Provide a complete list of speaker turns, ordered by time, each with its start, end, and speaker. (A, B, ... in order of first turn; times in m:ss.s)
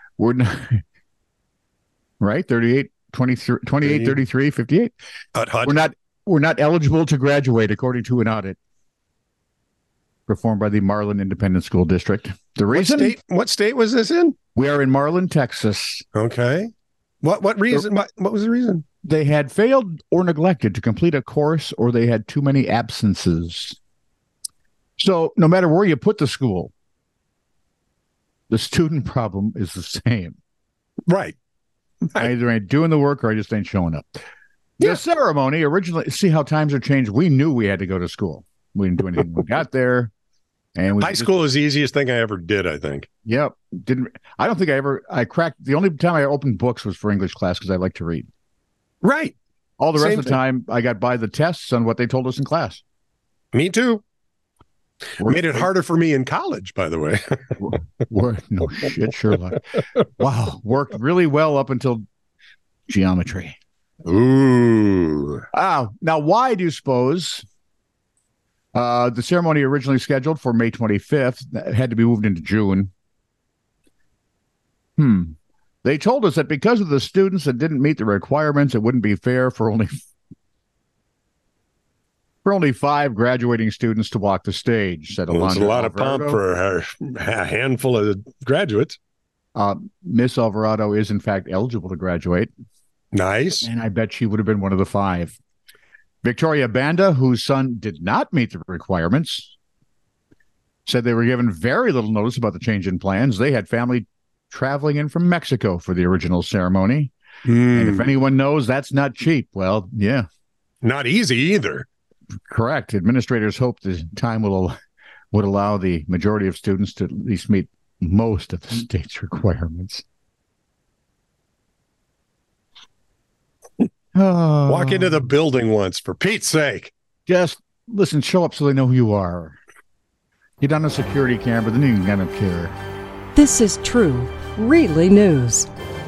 0:00.2-0:00.8 A
0:02.2-0:04.9 A
0:03.8-0:04.2 B
0:05.3-0:05.9 B
0:05.6-0:08.6 A
0:10.3-0:13.1 A
0:12.7-0:14.3 B
0:14.5-0:16.0 A
0:16.1-0:16.7 B
0:17.2-0:18.8 B
0:19.0-0:23.8 A
0:25.0-0:26.7 A
0:28.5-0:30.4 A
0:31.1-0:31.4 B
0:32.1-0:34.0 A
0:34.8-0:40.1 A
0:40.8-0:41.3 A
0:41.0-0:43.1 B
0:43.2-0:48.3 A
0:49.0-0:49.4 B
0:49.8-0:52.8 A
0:50.0-0:50.4 B
0:53.5-0:54.0 B
0:55.2-0:55.6 A
0:55.2-0:57.7 B
0:57.6-0:59.7 A
1:00.2-1:02.0 A
1:02.9-1:03.6 A
1:04.0-1:05.4 B
1:05.5-1:07.4 A
1:08.7-1:12.9 A
1:15.0-1:20.0 A
1:22.4-1:26.4 A
1:25.3-1:29.0 B
1:29.5-1:32.5 A
1:33.1-1:33.7 B
1:33.6-1:35.4 A
1:36.2-1:39.5 A
1:40.8-1:47.1 A
1:47.4-1:48.1 B
1:47.7-1:50.2 A
1:50.8-1:51.9 B
1:52.5-1:54.7 A
1:55.3-2:00.0 A
2:04.1-2:05.2 A
2:04.7-2:06.9 B
2:07.3-2:09.6 A
2:10.6-2:12.8 A
2:13.3-2:15.7 C